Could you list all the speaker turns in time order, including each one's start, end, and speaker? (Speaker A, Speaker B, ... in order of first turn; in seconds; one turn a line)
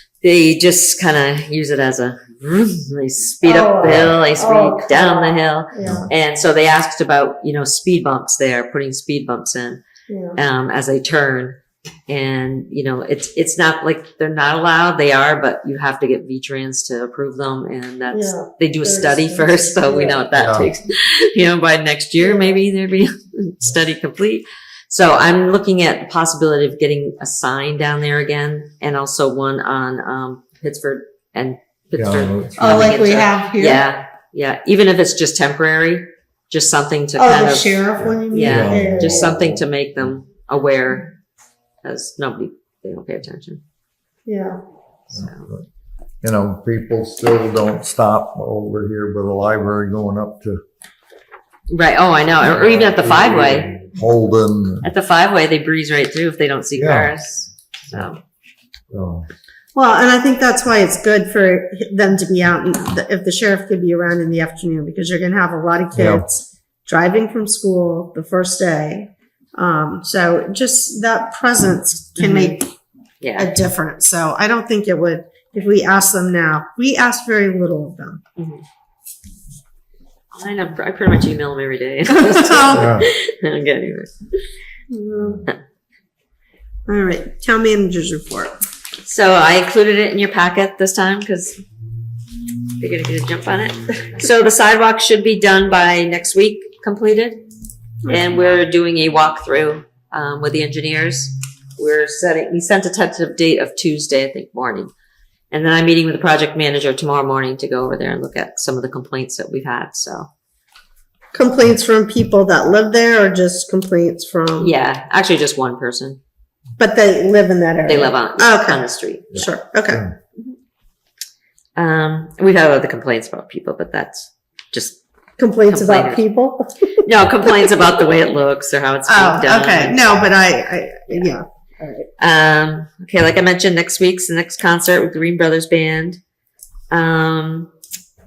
Speaker A: 0.2-9.8
Speaker B: 3.4-6.1
Speaker C: 5.8-6.1
Speaker B: 10.1-10.4
Speaker A: 10.4-11.6
Speaker A: 12.1-41.1
Speaker B: 18.1-20.3
Speaker C: 20.4-20.7
Speaker B: 22.2-22.6
Speaker C: 32.0-32.9
Speaker B: 32.6-33.9
Speaker B: 37.1-39.3
Speaker C: 38.4-39.6
Speaker A: 41.8-43.6
Speaker B: 44.3-44.6
Speaker A: 45.1-45.5
Speaker C: 45.1-45.7
Speaker C: 46.2-50.6
Speaker A: 51.7-53.7
Speaker C: 52.5-54.9
Speaker A: 54.8-58.2
Speaker C: 56.8-57.1
Speaker C: 58.9-59.3
Speaker B: 59.8-72.7
Speaker C: 66.0-66.2
Speaker A: 72.2-72.6
Speaker A: 73.2-73.5
Speaker B: 73.4-78.2
Speaker A: 78.4-78.6
Speaker A: 80.3-84.4
Speaker B: 82.2-82.9
Speaker C: 82.7-83.1
Speaker B: 84.9-85.5
Speaker B: 86.9-88.6
Speaker A: 89.0-91.6
Speaker A: 92.8-97.4
Speaker A: 98.1-104.9
Speaker A: 105.5-110.3
Speaker B: 111.3-114.7
Speaker A: 114.6-116.2
Speaker B: 116.8-120.1
Speaker A: 117.8-119.5
Speaker A: 121.8-125.0
Speaker B: 125.4-126.9
Speaker A: 125.7-126.3
Speaker A: 127.0-130.1
Speaker B: 129.1-132.1
Speaker A: 132.2-136.2
Speaker A: 136.9-137.7